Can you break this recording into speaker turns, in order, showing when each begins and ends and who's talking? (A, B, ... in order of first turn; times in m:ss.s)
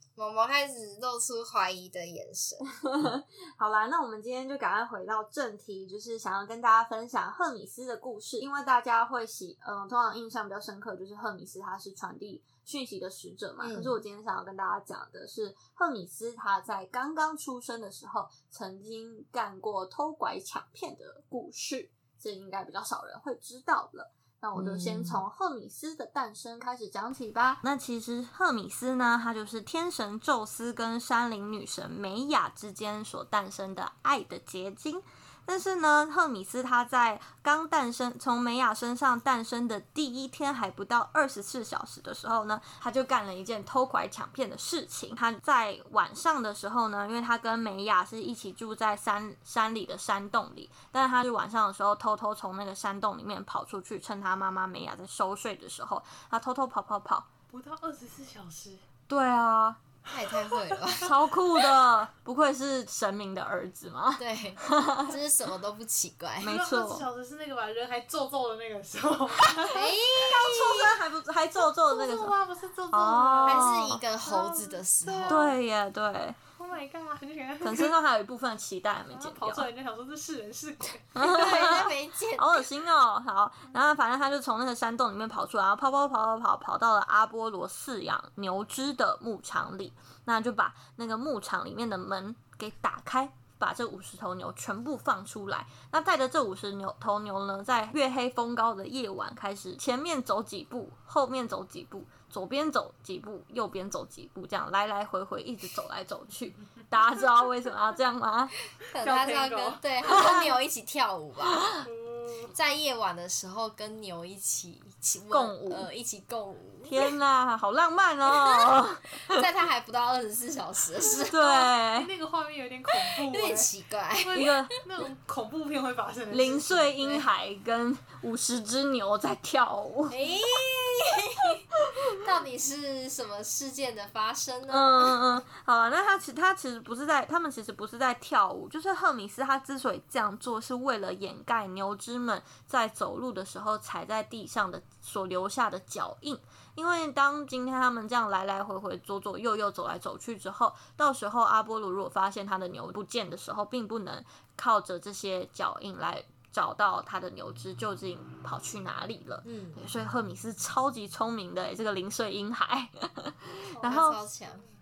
0:00.2-0:02.7 A
0:02.8-0:57.3 B
0:13.6-0:14.0 A
0:24.6-0:25.2 A
0:57.5-0:58.8 C
0:59.1-0:59.8 B
1:00.1-1:01.1 A
1:00.4-1:00.8 C
1:01.0-1:05.2 B
1:04.2-1:06.5 A
1:06.4-1:07.1 B
1:06.4-1:09.9 C
1:09.6-1:12.4 B
1:09.7-1:10.9 A
1:11.9-1:15.6 C
1:12.9-1:14.0 B
1:13.4-1:15.5 A
1:15.3-1:16.4 B
1:16.6-1:17.9 C
1:17.6-1:19.7 B
1:19.1-1:21.7 C
1:21.2-1:48.5 B
1:21.2-1:22.7 A
1:48.8-1:51.8 A
1:49.0-1:50.3 C
1:50.0-1:50.6 B
1:51.6-1:51.8 B
1:51.8-1:52.5 C
1:52.5-1:57.0 A
1:55.3-1:55.9 B
1:56.9-1:59.4 B
1:59.3-2:01.4 A
2:01.2-2:07.0 C
2:01.3-2:02.1 B
2:03.0-2:04.7 A
2:04.3-2:04.8 B
2:06.3-2:10.2 B
2:10.1-2:15.2 A
2:14.7-2:44.2 B
2:39.4-2:39.8 A
2:43.7-2:44.7 C
2:43.8-2:44.6 A